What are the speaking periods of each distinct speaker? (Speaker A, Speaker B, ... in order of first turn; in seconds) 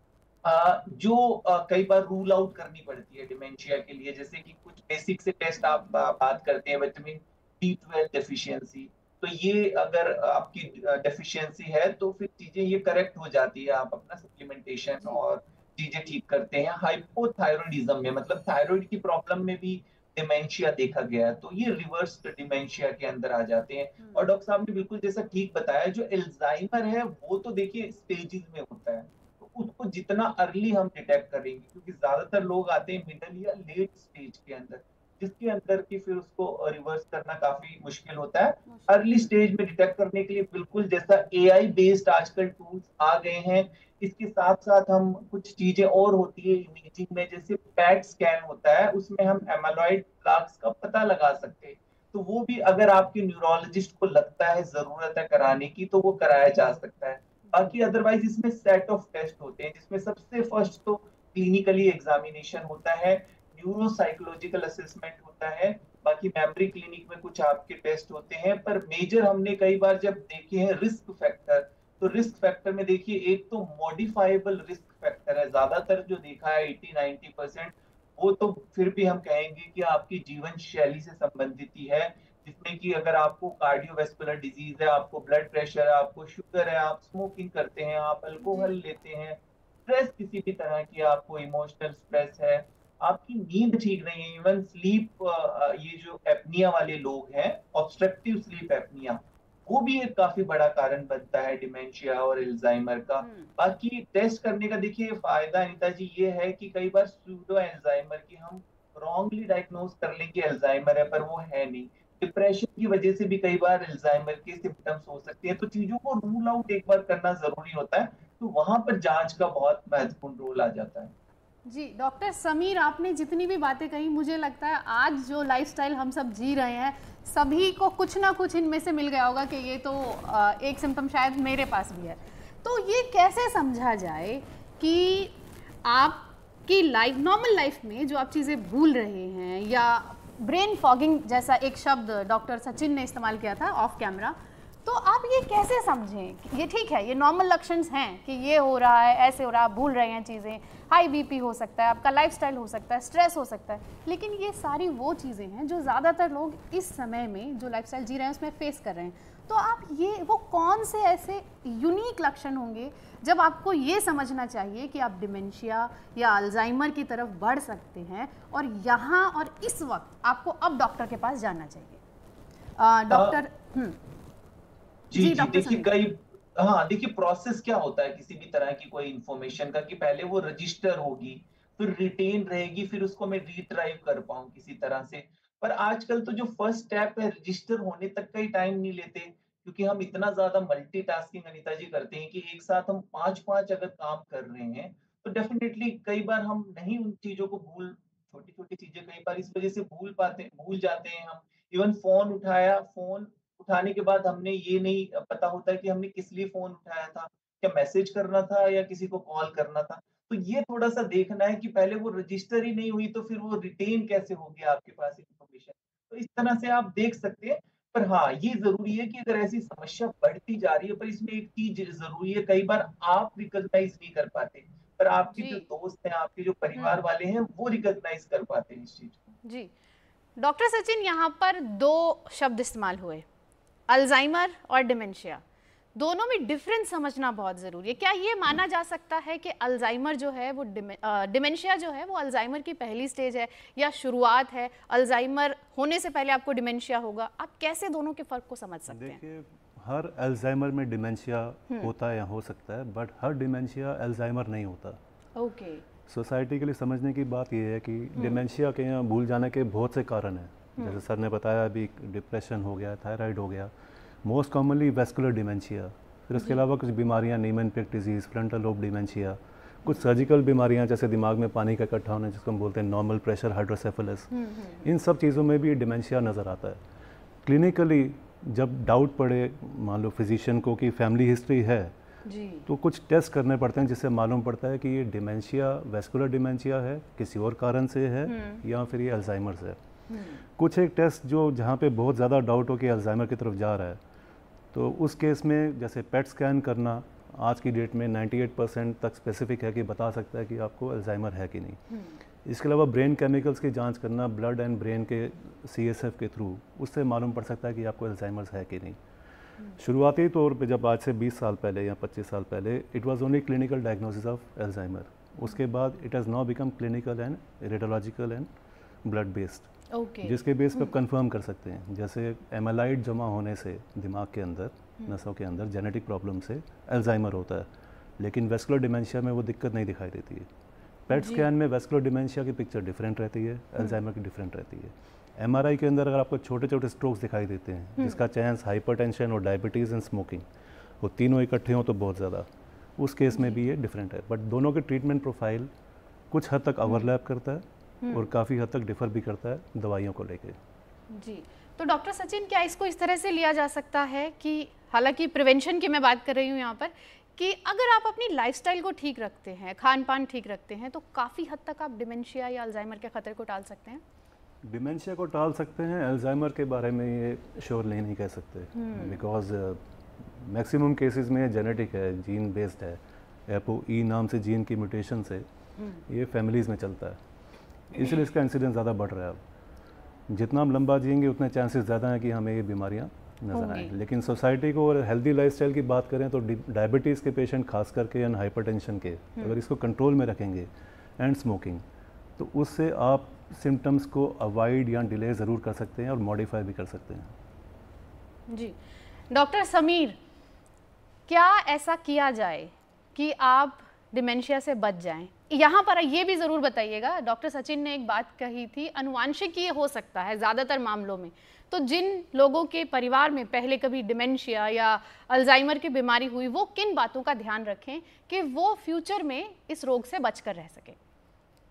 Speaker A: 0.4-121.1, 173.1-173.4, 175.1-229.3
Speaker B: 24.0-24.3, 88.4-88.7, 103.2-103.5, 121.7-172.0, 172.8-174.0, 175.2-175.9, 225.3-225.7, 229.4-229.7, 230.4-233.2, 233.9-235.4, 235.9-249.2, 255.3-255.8, 274.3-274.8, 282.2-282.6, 288.2-288.6, 290.1-290.4, 301.9-302.2, 319.9-320.9, 331.1-331.5, 343.3-343.6, 348.0-348.3, 351.1-364.0, 368.7-369.2, 375.8-376.0, 383.5-383.9, 398.5-398.8, 399.3-400.2, 401.3-421.0
Speaker C: 248.9-255.0, 256.1-263.7, 264.2-276.8, 277.4-281.9, 282.6-289.8, 290.5-294.0, 294.7-301.8, 302.4-309.0, 309.8-318.5, 319.0-319.7, 320.2-330.5, 331.1-340.4, 341.0-345.7, 346.3-350.6, 364.6-375.4, 376.1-377.2, 377.9-379.4, 380.3-391.8, 392.4-397.3